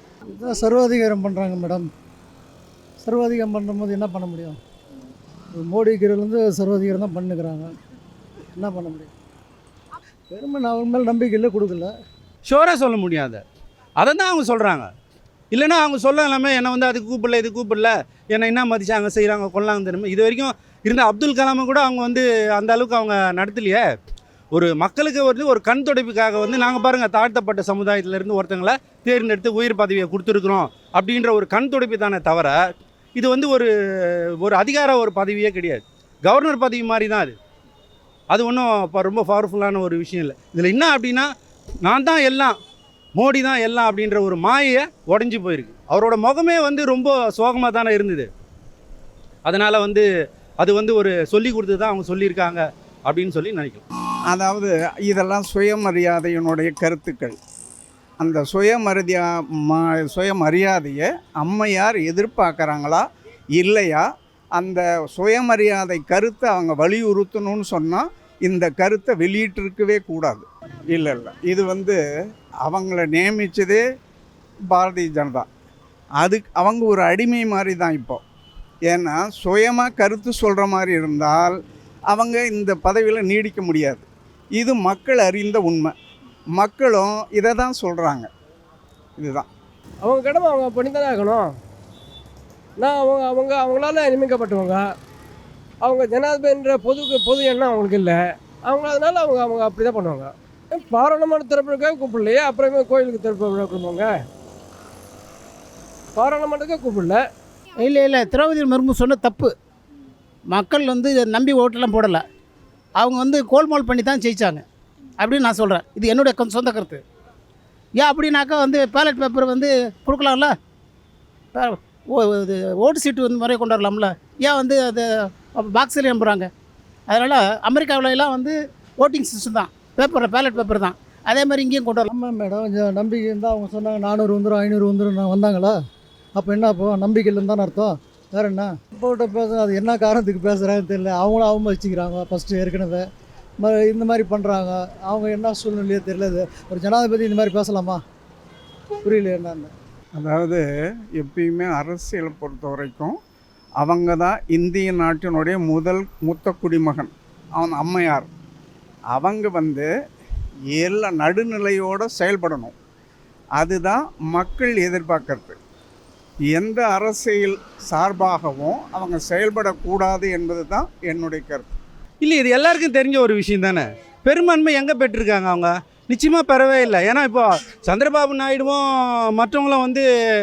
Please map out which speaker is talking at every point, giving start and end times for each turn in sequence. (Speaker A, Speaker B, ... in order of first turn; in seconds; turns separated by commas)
Speaker A: 0.3-1.9, Speaker A: 3.0-4.6, Speaker A: 5.5-7.7, Speaker A: 8.6-9.1, Speaker A: 10.3-11.9, Speaker B: 12.4-13.4, Speaker B: 14.0-14.9, Speaker B: 15.5-23.9, Speaker B: 24.5-32.6, Speaker B: 33.2-37.4, Speaker B: 38.3-41.3, Speaker B: 41.8-42.6, Speaker B: 43.2-48.3, Speaker B: 49.5-50.1, Speaker B: 50.6-53.8, Speaker C: 54.3-57.4, Speaker C: 58.2-63.0, Speaker C: 63.6-72.0, Speaker C: 72.7-73.8, Speaker C: 74.7-75.5, Speaker C: 76.2-78.2, Speaker C: 78.9-81.6, Speaker C: 82.1-85.9, Speaker C: 86.6-88.3, Speaker C: 89.2-89.5, Speaker D: 90.0-91.5, Speaker D: 92.8-94.8, Speaker D: 95.8-104.2, Speaker D: 106.2-107.2, Speaker E: 107.8-109.5, Speaker E: 110.5-112.2, Speaker E: 113.0-114.6, Speaker E: 115.2-117.0, Speaker E: 118.0-120.5, Speaker E: 121.5-126.5, Speaker E: 127.1-132.1, Speaker A: 132.1-135.8, Speaker A: 136.3-143.1, Speaker A: 143.6-148.0, Speaker A: 149.1-149.7, Speaker C: 150.2-150.6, Speaker C: 151.2-153.2, Speaker C: 153.8-158.3, Speaker C: 159.1-159.9, Speaker C: 160.7-162.7, Speaker C: 163.6-165.6, Speaker C: 166.5-171.8, Speaker B: 172.2-180.1